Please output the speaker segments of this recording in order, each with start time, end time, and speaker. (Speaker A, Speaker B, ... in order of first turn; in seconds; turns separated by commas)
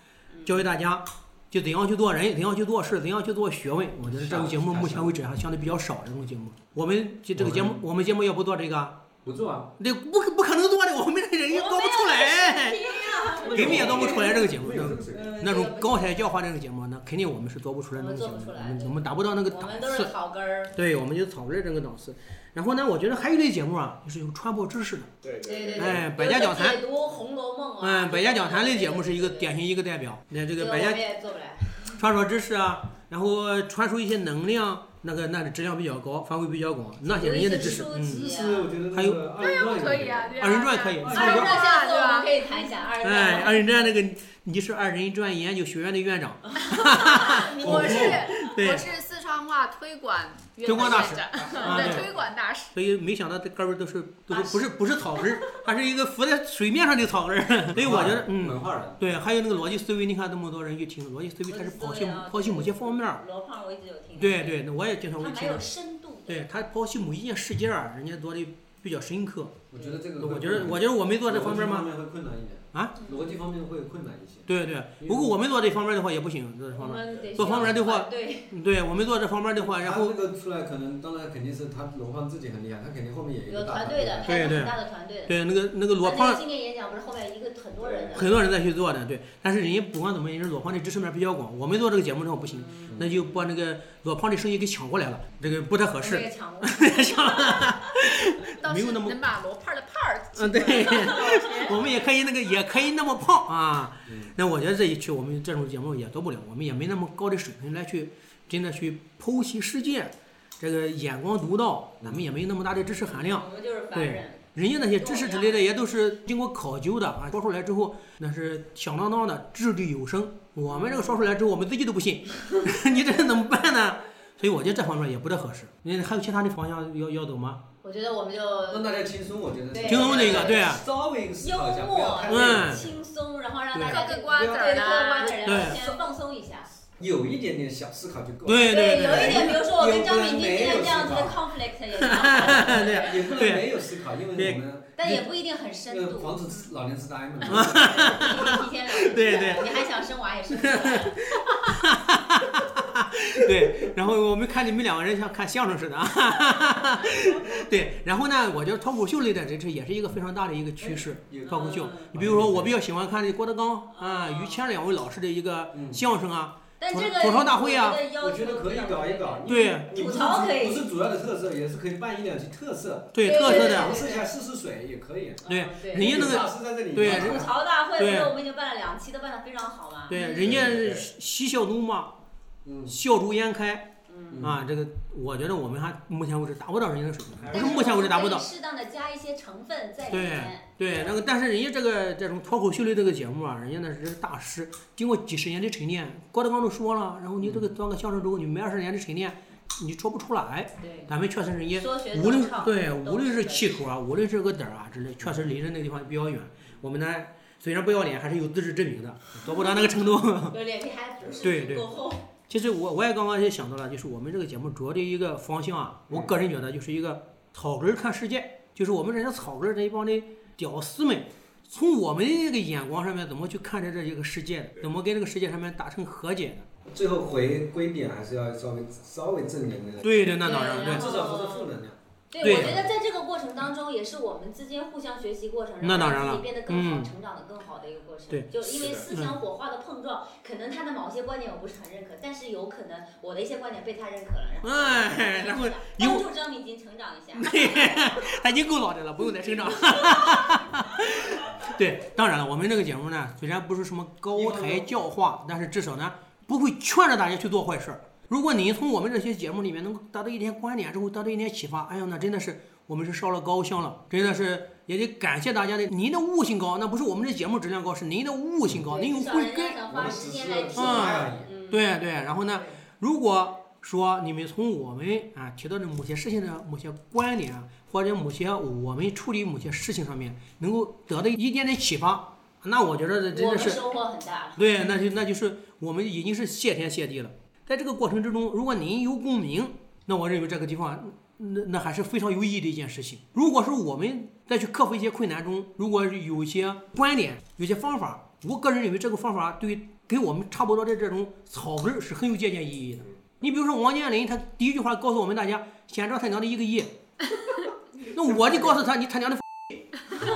Speaker A: 0.3-0.7, Speaker B: 0.5-9.0, Speaker C: 4.0-5.2, Speaker C: 7.3-7.8, Speaker C: 9.2-9.7, Speaker B: 9.8-20.1, Speaker A: 11.5-14.4, Speaker C: 13.4-15.3, Speaker A: 15.1-16.3, Speaker A: 17.9-20.8, Speaker B: 20.7-25.1, Speaker D: 25.2-26.0, Speaker A: 25.4-29.5, Speaker B: 25.8-26.8, Speaker B: 27.8-31.0, Speaker A: 30.6-32.0, Speaker B: 32.0-38.2, Speaker A: 37.0-38.7, Speaker C: 38.0-40.5, Speaker B: 38.9-39.2, Speaker E: 39.4-42.6, Speaker B: 40.4-41.4, Speaker C: 41.0-41.6, Speaker A: 41.1-44.0, Speaker B: 43.0-48.9, Speaker E: 46.6-52.7, Speaker C: 47.6-48.3, Speaker B: 50.6-52.1, Speaker C: 50.8-52.0, Speaker B: 52.7-63.2, Speaker A: 54.3-54.6, Speaker C: 57.8-59.0, Speaker A: 61.5-64.7, Speaker B: 64.2-65.7, Speaker A: 65.2-66.4, Speaker B: 66.3-69.6, Speaker C: 69.7-74.5, Speaker A: 69.7-70.0, Speaker B: 70.2-71.9, Speaker B: 72.7-73.0, Speaker B: 74.5-80.2, Speaker C: 75.0-75.3, Speaker A: 76.7-78.5, Speaker C: 79.8-84.5, Speaker A: 83.5-85.3, Speaker B: 84.2-86.4, Speaker A: 86.0-88.3, Speaker C: 87.8-88.3, Speaker B: 88.1-99.2, Speaker A: 92.5-93.1, Speaker C: 92.9-93.2, Speaker A: 96.0-97.8, Speaker E: 98.6-101.5, Speaker B: 100.4-127.6, Speaker A: 100.5-102.0, Speaker C: 104.1-104.3, Speaker A: 113.0-115.7, Speaker A: 120.7-121.2, Speaker A: 127.8-129.1, Speaker C: 128.7-133.0, Speaker A: 129.7-130.7, Speaker B: 129.8-130.8, Speaker A: 131.4-136.7, Speaker B: 132.3-132.8, Speaker B: 133.7-134.1, Speaker E: 133.8-135.9, Speaker B: 135.4-135.8, Speaker C: 137.0-141.4, Speaker B: 138.4-139.7, Speaker A: 138.7-143.2, Speaker B: 142.1-143.7, Speaker C: 142.4-144.9, Speaker B: 144.3-145.2, Speaker A: 145.0-146.4, Speaker C: 145.9-148.2, Speaker A: 147.5-151.3, Speaker B: 147.5-149.8, Speaker B: 150.5-168.1, Speaker C: 160.8-162.7, Speaker A: 161.4-162.1, Speaker A: 163.9-164.6, Speaker C: 165.7-166.0, Speaker A: 166.8-170.9, Speaker C: 168.2-177.5, Speaker B: 169.5-169.9, Speaker B: 173.1-174.0, Speaker A: 173.2-174.3, Speaker A: 175.4-176.4, Speaker B: 175.5-178.3, Speaker A: 177.0-180.7, Speaker B: 180.1-182.1, Speaker D: 180.3-181.1, Speaker C: 182.6-183.0, Speaker B: 182.9-188.5, Speaker A: 184.1-184.5, Speaker C: 184.3-184.6, Speaker D: 187.4-187.9, Speaker A: 187.5-191.2, Speaker B: 190.1-210.6, Speaker C: 197.4-197.7, Speaker A: 200.8-201.1, Speaker A: 201.7-203.8, Speaker A: 210.5-212.3, Speaker B: 211.4-211.9, Speaker B: 212.5-226.7, Speaker C: 226.9-232.6, Speaker B: 230.0-231.2, Speaker A: 230.4-231.8, Speaker A: 232.3-247.9, Speaker B: 232.4-232.9, Speaker B: 235.8-237.1, Speaker B: 238.3-239.4, Speaker B: 244.6-246.2, Speaker B: 247.4-269.8, Speaker C: 254.3-254.9, Speaker A: 268.9-271.9, Speaker C: 269.9-271.5, Speaker B: 270.8-283.8, Speaker A: 283.3-284.6, Speaker B: 284.6-306.9, Speaker B: 308.1-309.4